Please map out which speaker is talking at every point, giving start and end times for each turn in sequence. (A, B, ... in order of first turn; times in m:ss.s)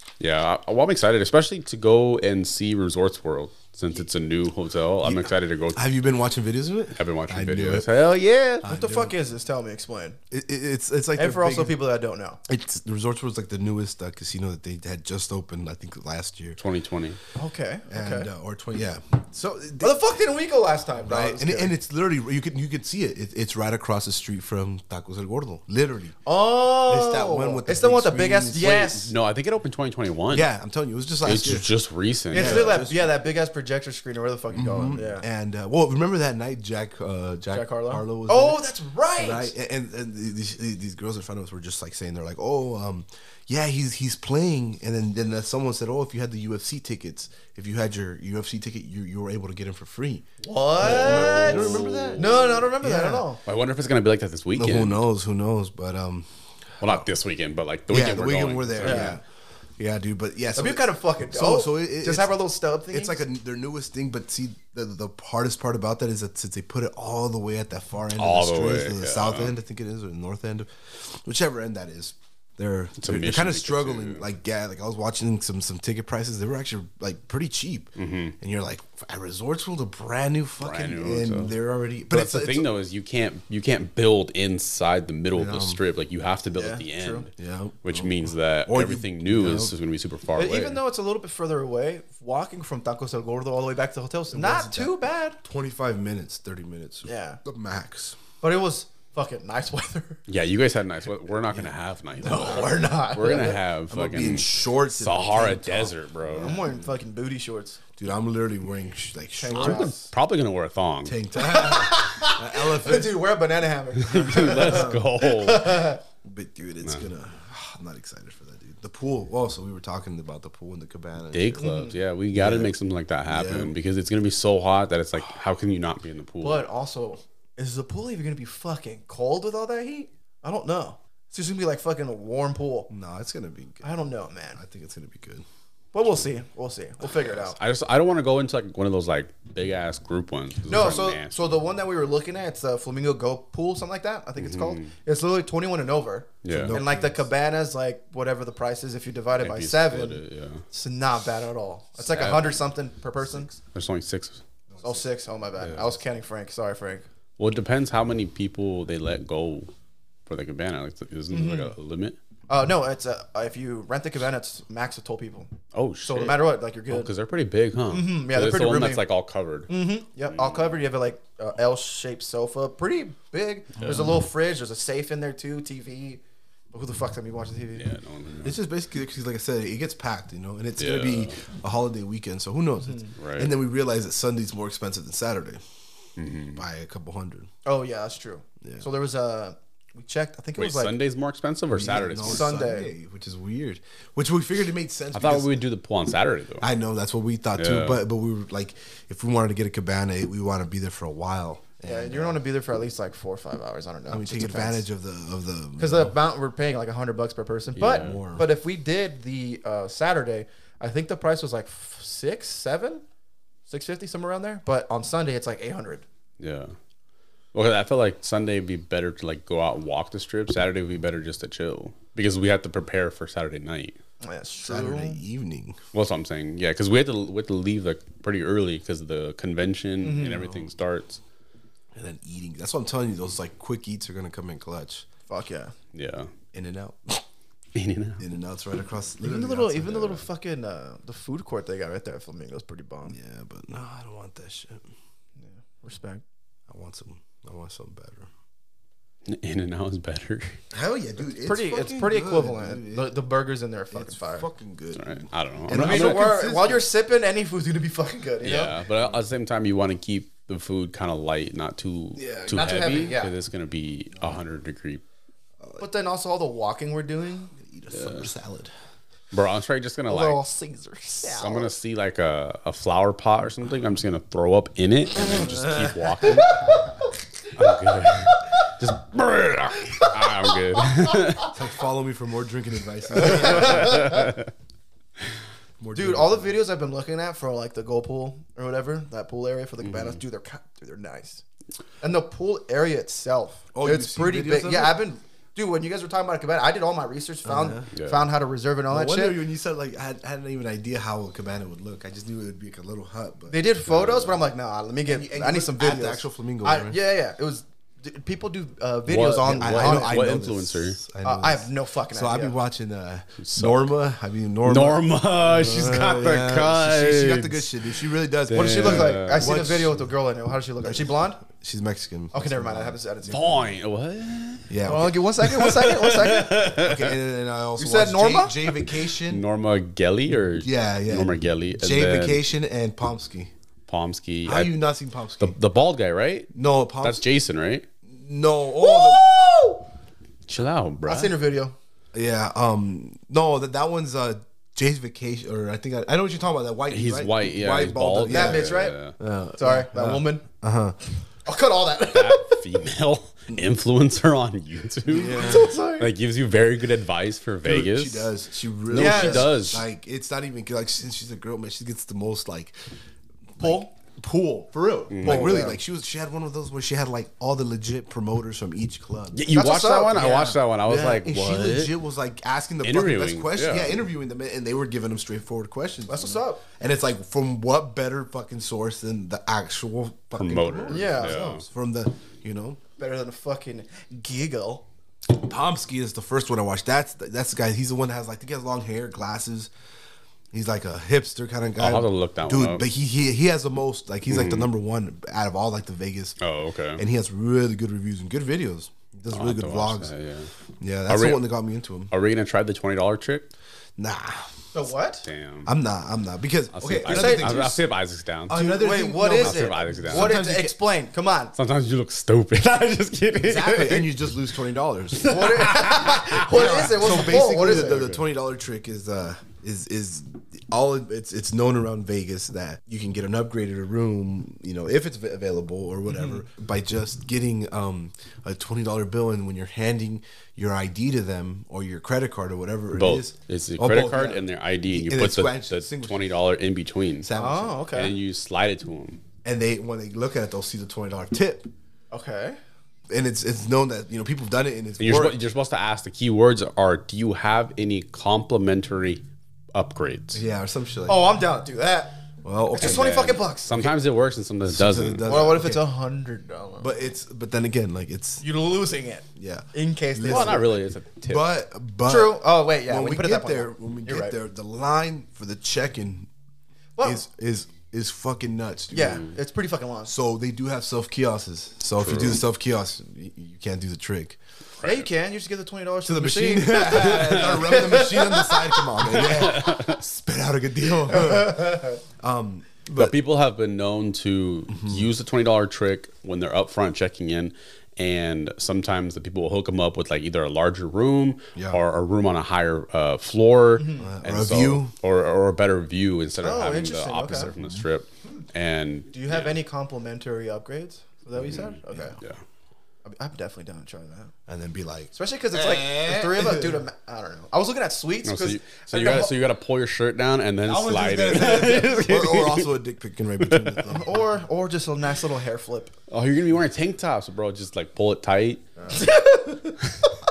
0:00.2-0:05.9 A
0:05.0-0:08.0 B
0:06.9-0:08.6 A
0:08.6-0:09.2 B
0:08.6-0:10.2 C
0:10.3-0:11.8 B
0:11.2-0:12.4 C
0:12.5-0:16.6 B
0:16.6-0:17.2 A
0:17.4-0:18.3 C
0:17.9-0:20.0 B
0:19.8-0:21.7 C
0:21.1-0:26.2 B
0:26.3-0:29.1 C
0:26.8-0:28.8 B
0:28.6-0:30.5 A
0:30.3-0:31.7 B
0:31.2-0:32.8 A
0:32.3-0:33.1 B
0:32.3-0:35.2 C
0:34.5-0:38.7 B
0:37.5-0:39.5 C
0:39.2-0:50.3 B
0:50.4-0:53.4 C
0:50.8-0:53.3 B
0:50.8-0:52.7 A
0:53.4-0:55.0 A
0:54.6-0:56.3 B
0:56.8-0:57.1 B
0:56.8-0:59.2 A
0:57.9-0:59.2 B
0:58.8-0:59.2 C
0:59.8-1:02.4 B
1:00.6-1:03.2 C
1:02.9-1:22.7 B
1:08.2-1:09.5 A
1:13.0-1:14.2 A
1:18.0-1:18.4 A
1:20.6-1:21.6 A
1:22.1-1:27.3 A
1:25.3-1:25.8 B
1:26.5-1:27.3 C
1:27.3-1:29.7 B
1:27.8-1:30.8 A
1:30.3-1:35.4 C
1:34.3-1:38.2 B
1:37.0-1:37.4 C
1:38.4-1:40.2 C
1:40.3-1:46.6 A
1:42.2-1:43.6 C
1:42.3-1:42.6 B
1:43.9-1:46.9 B
1:46.3-1:47.8 C
1:48.0-1:49.9 B
1:49.4-1:50.1 C
1:49.5-1:51.2 A
1:51.0-1:53.2 B
1:51.4-1:56.0 C
1:54.1-1:55.9 A
1:54.4-1:55.1 B
1:56.2-2:01.7 B
2:01.3-2:06.7 A
2:01.6-2:02.0 C
2:02.3-2:02.7 B
2:03.3-2:03.8 B
2:06.4-2:12.9 C
2:12.9-2:13.9 B
2:13.8-2:14.6 C
2:14.6-2:15.5 B
2:15.9-2:17.6 C
2:17.2-2:21.4 A
2:20.7-2:30.2 C
2:24.4-2:24.9 A
2:26.4-2:26.8 A
2:26.5-2:27.2 B
2:29.4-2:30.6 A
2:30.7-2:33.5 C
2:32.0-2:32.6 A
2:33.7-2:34.4 A
2:34.7-2:35.0 B
2:34.8-2:37.1 C
2:35.6-2:35.9 A
2:37.4-2:39.7 A
2:40.3-2:42.2 A
2:41.3-2:41.7 C
2:42.5-2:45.5 C
2:45.7-2:49.7 A
2:46.0-2:47.1 C
2:47.9-2:49.1 C
2:49.7-2:56.2 C
2:50.3-2:50.7 A
2:53.8-2:54.1 A
2:56.7-2:57.9 C
2:57.8-2:58.6 A
2:58.4-3:05.6 B
3:00.8-3:01.4 A
3:02.8-3:03.1 C
3:03.2-3:03.5 A
3:06.2-3:06.6 A
3:06.6-3:07.5 B
3:07.6-3:11.0 C
3:10.6-3:12.5 A
3:11.7-3:15.7 B
3:12.2-3:12.9 C
3:15.1-3:16.7 A
3:16.6-3:22.4 B
3:17.6-3:18.0 A
3:21.8-3:24.9 C
3:24.1-3:26.2 B
3:25.8-3:33.0 C
3:27.8-3:28.2 A
3:27.8-3:28.5 B
3:33.7-3:36.0 C
3:36.4-3:36.8 A
3:37.5-3:44.0 A
3:44.2-3:45.2 C
3:44.6-3:45.8 B
3:45.9-3:51.2 A
3:50.0-3:50.5 C
3:50.3-3:50.6 B
3:51.9-3:55.1 B
3:55.3-3:55.7 C
3:55.9-3:56.3 A
3:56.5-3:57.2 B
3:57.8-3:58.2 A
3:58.2-4:00.2 B
3:59.2-4:03.2 C
4:03.1-4:04.9 B
4:05.4-4:06.2 C
4:06.7-4:08.3 B
4:09.3-4:10.6 A
4:10.7-4:13.2 B
4:11.4-4:14.5 C
4:13.9-4:16.9 B
4:15.0-4:16.3 A
4:15.7-4:18.8 C
4:18.4-4:25.0 A
4:22.2-4:22.7 B
4:22.4-4:23.3 C
4:24.2-4:24.4 B
4:25.8-4:27.5 C
4:27.6-4:28.7 B
4:27.9-4:28.3 A
4:29.3-4:30.4 A
4:30.1-4:31.7 C
4:31.3-4:36.8 A
4:36.2-4:36.9 C
4:37.5-4:41.5 A
4:39.9-4:41.5 C
4:41.5-4:44.1 B
4:43.1-4:44.3 C
4:43.2-4:44.5 A
4:45.8-4:46.6 B
4:45.9-4:51.4 C
4:49.8-4:50.2 A
4:52.0-4:59.4 C
4:53.7-4:55.0 B
4:57.4-4:57.9 B
4:58.0-4:58.2 A
4:58.9-5:03.7 B
5:03.5-5:10.2 C
5:03.9-5:04.3 A
5:05.1-5:07.0 B
5:09.1-5:11.0 A
5:09.4-5:20.1 B
5:11.2-5:12.6 C
5:13.4-5:13.9 A
5:14.6-5:17.9 A
5:18.5-5:19.5 A
5:18.5-5:21.4 C
5:20.8-5:23.3 B
5:22.3-5:23.7 C
5:23.3-5:24.8 A
5:24.7-5:25.2 B
5:24.8-5:26.7 C
5:25.4-5:27.2 A
5:26.6-5:29.4 B
5:27.8-5:28.6 C
5:29.2-5:32.4 A
5:30.6-5:33.5 B
5:33.9-5:34.8 A
5:34.4-5:35.6 B
5:35.4-5:37.9 A
5:36.5-5:37.2 B
5:38.0-5:39.3 B
5:38.8-5:39.9 C
5:40.5-5:41.4 A
5:41.0-5:41.8 C
5:42.1-5:51.0 B
5:46.9-5:49.2 A
5:48.3-5:49.0 C
5:49.6-5:50.4 C
5:51.5-5:52.7 C
5:52.1-5:58.3 A
5:55.1-5:55.8 B
5:55.2-5:56.1 C
5:57.6-6:02.9 B
5:58.9-5:59.8 A
5:58.9-5:59.6 C
6:03.6-6:09.5 B
6:03.6-6:03.9 C
6:05.1-6:05.7 A
6:05.2-6:05.8 C
6:09.3-6:12.0 A
6:09.5-6:11.1 C
6:10.9-6:22.8 B
6:12.8-6:14.0 A
6:16.1-6:16.6 C
6:20.4-6:21.6 A
6:20.9-6:21.5 C
6:23.0-6:24.9 C
6:25.3-6:29.7 B
6:30.5-6:36.4 B
6:31.8-6:32.8 A
6:34.3-6:34.7 A
6:36.4-6:37.0 A
6:37.0-6:40.1 B
6:39.3-6:40.5 A
6:40.8-6:42.1 B
6:41.1-6:41.5 A
6:42.1-6:43.5 A
6:44.0-6:44.5 B
6:44.7-6:45.2 C
6:45.2-6:45.7 A
6:45.6-6:47.8 B
6:46.7-6:48.6 A
6:47.0-6:47.6 C
6:48.5-6:50.8 B
6:48.5-6:51.6 C
6:49.2-6:50.4 A
6:51.6-6:54.3 A
6:53.4-7:16.2 B
6:55.2-6:57.3 A
6:55.3-6:58.1 C
7:12.9-7:17.3 A
7:17.2-7:17.9 B
7:17.4-7:18.1 C
7:17.9-7:19.2 A
7:19.4-7:21.7 B
7:22.1-7:22.6 C
7:23.1-7:25.4 B
7:25.0-7:30.4 A
7:30.3-7:31.3 B
7:31.1-7:32.2 C
7:32.4-7:33.1 B
7:32.7-7:33.7 C
7:32.8-7:35.4 A
7:34.7-7:35.8 B
7:35.2-7:37.0 C
7:36.8-7:38.4 B
7:38.4-7:40.7 C
7:39.4-7:46.3 B
7:40.2-7:41.5 A
7:42.1-7:44.4 C
7:47.0-7:47.2 C
7:47.0-7:49.2 B
7:48.9-7:50.1 C
7:50.0-7:54.4 B
7:52.0-7:52.4 A
7:54.8-7:55.1 A
7:54.8-7:59.2 C
7:56.0-8:03.2 B
7:57.1-7:57.6 A
7:59.1-8:00.0 A
8:01.1-8:01.9 C
8:03.0-8:19.6 A
8:04.7-8:05.1 B
8:11.6-8:11.8 B
8:13.8-8:14.1 C
8:14.0-8:14.9 B
8:16.4-8:17.5 C
8:17.6-8:17.8 B
8:19.1-8:22.2 C
8:21.5-8:22.4 A
8:23.0-8:24.3 C
8:24.5-8:26.8 B
8:25.1-8:29.3 C
8:28.2-8:32.7 A
8:30.6-8:34.2 B
8:33.4-8:33.9 A
8:33.9-8:35.9 C
8:36.1-8:38.6 A
8:38.8-8:39.1 B
8:38.9-8:39.9 C